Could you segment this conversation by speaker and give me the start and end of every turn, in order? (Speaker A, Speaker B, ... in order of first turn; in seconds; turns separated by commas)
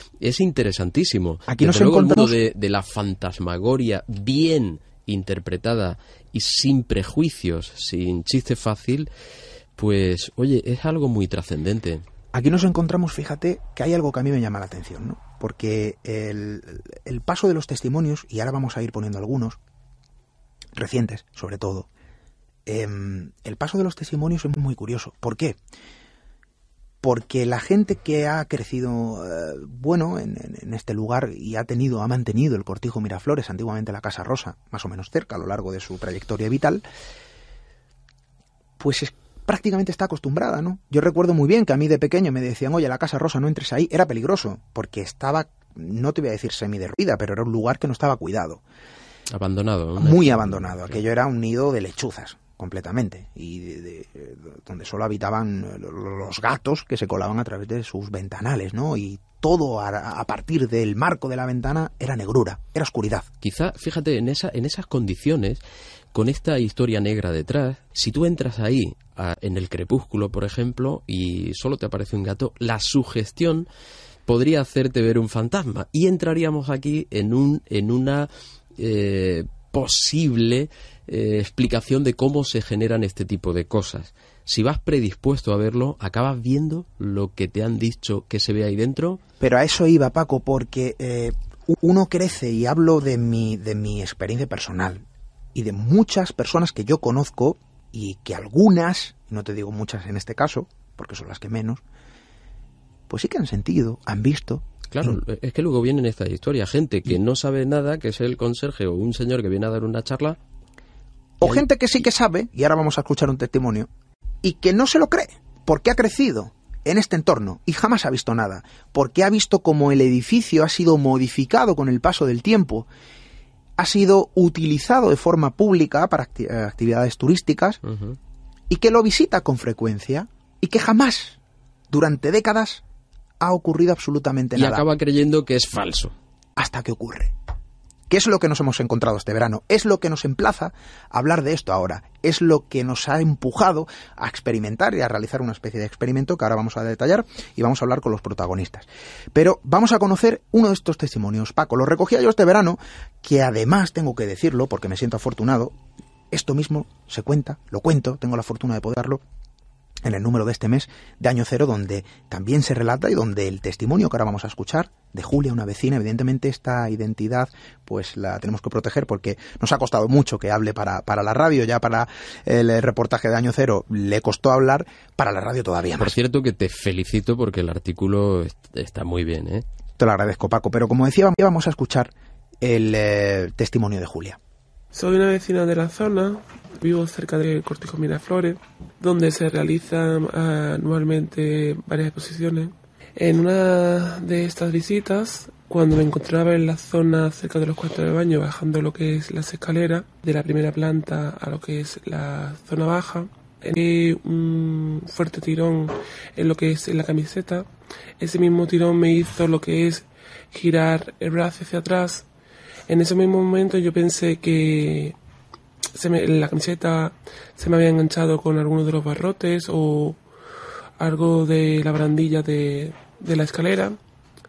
Speaker A: 0.2-9.1, Speaker B: 1.5-2.4, Speaker A: 9.8-12.0, Speaker B: 12.3-19.6, Speaker B: 20.7-21.9, Speaker B: 22.6-25.6, Speaker B: 27.0-36.8, Speaker B: 38.8-48.6, Speaker A: 49.3-51.0, Speaker B: 50.0-63.3, Speaker A: 63.4-65.6, Speaker A: 66.1-73.7, Speaker A: 74.3-89.2, Speaker B: 89.4-95.0, Speaker B: 95.5-101.8, Speaker B: 103.1-105.2, Speaker A: 104.9-110.4, Speaker B: 111.4-113.9, Speaker B: 114.4-122.9, Speaker B: 123.8-127.8, Speaker A: 127.8-128.2, Speaker B: 128.7-131.4, Speaker B: 131.9-132.8, Speaker B: 133.4-134.8, Speaker A: 134.6-136.1, Speaker B: 136.6-137.3, Speaker B: 138.1-155.7, Speaker B: 156.3-159.2, Speaker B: 160.0-176.2, Speaker A: 176.0-179.6, Speaker B: 180.0-184.4, Speaker C: 184.9-207.7, Speaker C: 208.2-212.2, Speaker C: 212.9-215.2, Speaker C: 215.9-220.2, Speaker C: 221.0-224.0